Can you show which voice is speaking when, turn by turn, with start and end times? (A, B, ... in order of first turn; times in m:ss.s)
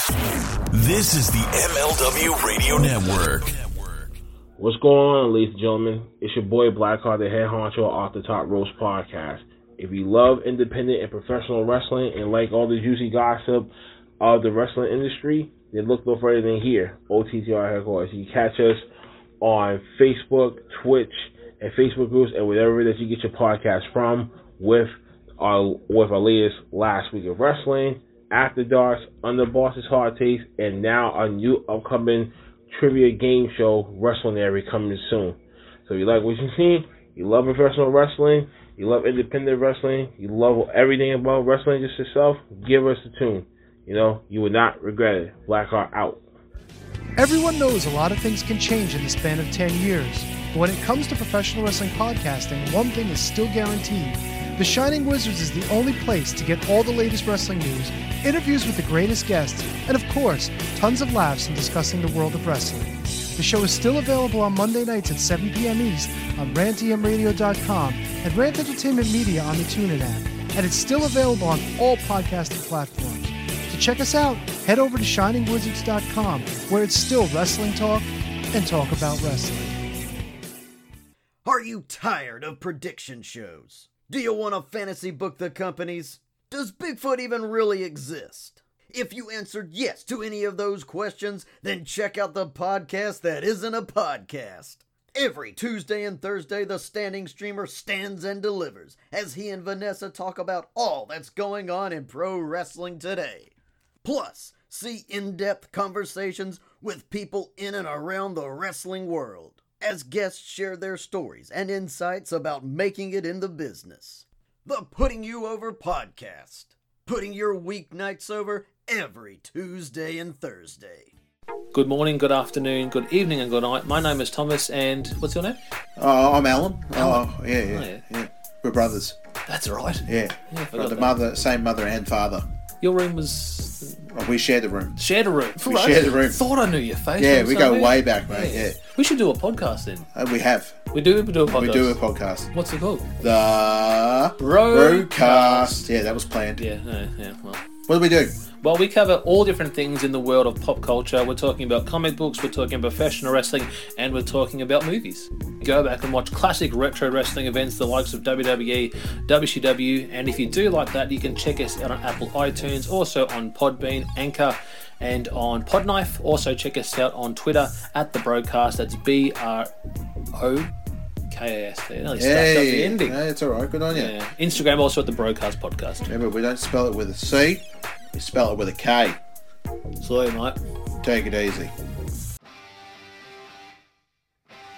0:00.7-0:04.1 A
0:04.6-0:18.8 B
0:19.4-0:46.2 B
0:47.2-1:19.8 C
1:21.4-2:01.1 D
2:01.7-2:05.6 E
2:06.0-2:09.2 F
2:06.9-2:08.0 E
2:09.5-2:11.2 E
2:10.0-2:12.5 F
2:12.8-2:14.1 E
2:14.1-2:16.4 F
2:15.0-2:20.1 E
2:17.2-2:18.8 F
2:20.1-2:20.8 F
2:20.9-2:22.0 E
2:21.4-2:22.5 F
2:22.5-2:23.1 E
2:23.2-2:26.6 F
2:24.4-2:25.9 E
2:26.6-2:27.6 E
2:27.8-2:28.4 F
2:28.5-2:49.7 E
2:50.3-2:50.7 E
2:51.3-2:53.2 E
2:52.1-2:54.1 F
2:53.9-2:56.1 E
2:56.1-2:59.2 F
3:00.0-3:00.6 E
3:01.0-3:01.7 F